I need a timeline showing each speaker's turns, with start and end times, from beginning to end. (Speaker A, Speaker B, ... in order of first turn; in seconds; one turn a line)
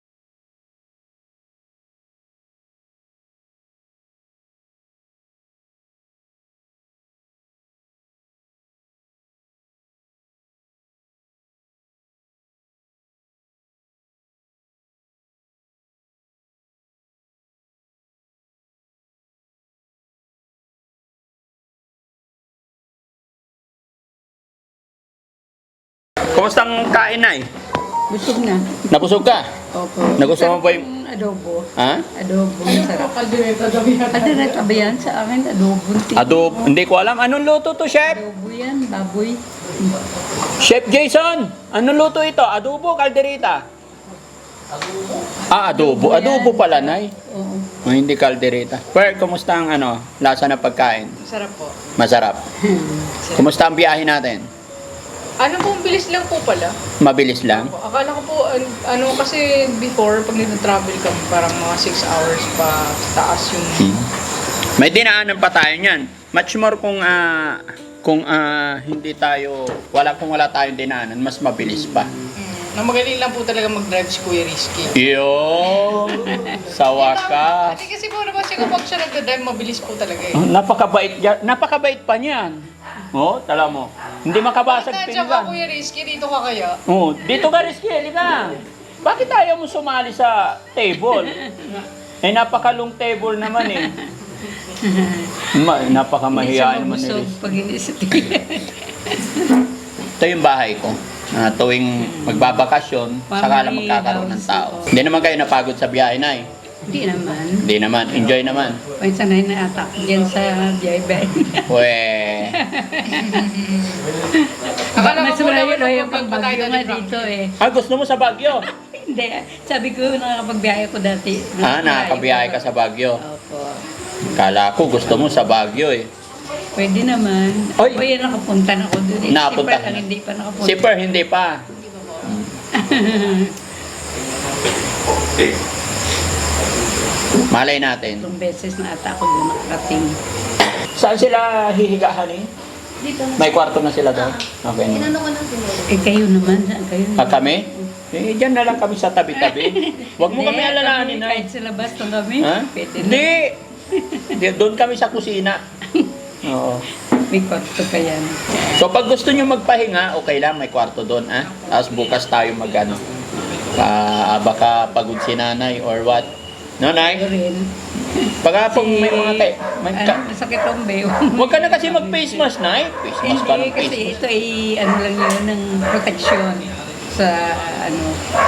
Speaker A: 26.3-27.5
Speaker B: 28.1-28.9
Speaker A: 28.9-29.5
Speaker B: 29.7-33.1
Speaker A: 30.2-30.8
Speaker A: 31.8-32.0
Speaker C: 32.6-34.7
Speaker B: 34.1-36.7
Speaker A: 36.1-38.2
Speaker B: 38.0-39.4
Speaker A: 40.6-43.6
Speaker A: 45.5-47.1
Speaker B: 45.7-47.7
Speaker A: 47.8-51.2
Speaker C: 51.2-51.7
Speaker A: 52.0-52.4
Speaker B: 52.6-53.1
Speaker A: 53.3-54.5
Speaker C: 55.4-56.7
Speaker A: 57.0-57.7
Speaker C: 57.5-63.9
Speaker A: 63.8-64.0
Speaker A: 64.8-72.1
Speaker C: 72.4-74.9
Speaker A: 75.0-77.8
Speaker C: 76.9-80.4
Speaker A: 80.3-82.6
Speaker A: 83.1-85.5
Speaker C: 84.7-86.8
Speaker A: 86.9-93.9
Speaker B: 94.7-95.5
Speaker A: 95.5-97.3
Speaker B: 96.3-99.5
Speaker A: 100.2-106.5
Speaker B: 103.3-104.9
Speaker B: 106.9-107.6
Speaker A: 107.6-108.8
Speaker B: 109.0-111.7
Speaker A: 111.7-112.5
Speaker B: 112.6-113.5
Speaker C: 113.3-114.0
Speaker B: 114.3-117.5
Speaker C: 114.9-117.3
Speaker A: 117.6-118.7
Speaker B: 118.7-122.7
Speaker A: 121.6-123.2
Speaker B: 123.2-123.8
Speaker A: 124.3-126.1
Speaker B: 126.8-131.0
Speaker A: 127.8-128.0
Speaker A: 129.3-130.0
Speaker A: 130.6-131.6
Speaker A: 132.2-132.5
Speaker B: 132.7-133.5
Speaker A: 137.5-138.3
Speaker B: 138.2-140.2
Speaker A: 140.9-142.5
Speaker D: 143.0-146.2
Speaker A: 143.4-145.1
Speaker B: 145.9-147.9
Speaker A: 147.2-151.4
Speaker B: 149.4-153.4
Speaker A: 152.4-153.6
Speaker B: 153.9-154.2
Speaker A: 154.3-155.6
Speaker A: 156.4-156.9
Speaker B: 157.2-158.8
Speaker A: 158.7-163.0
Speaker A: 163.7-166.3
Speaker A: 166.8-167.3
Speaker B: 167.0-172.5
Speaker A: 168.4-170.2
Speaker A: 171.3-174.2
Speaker B: 173.2-178.2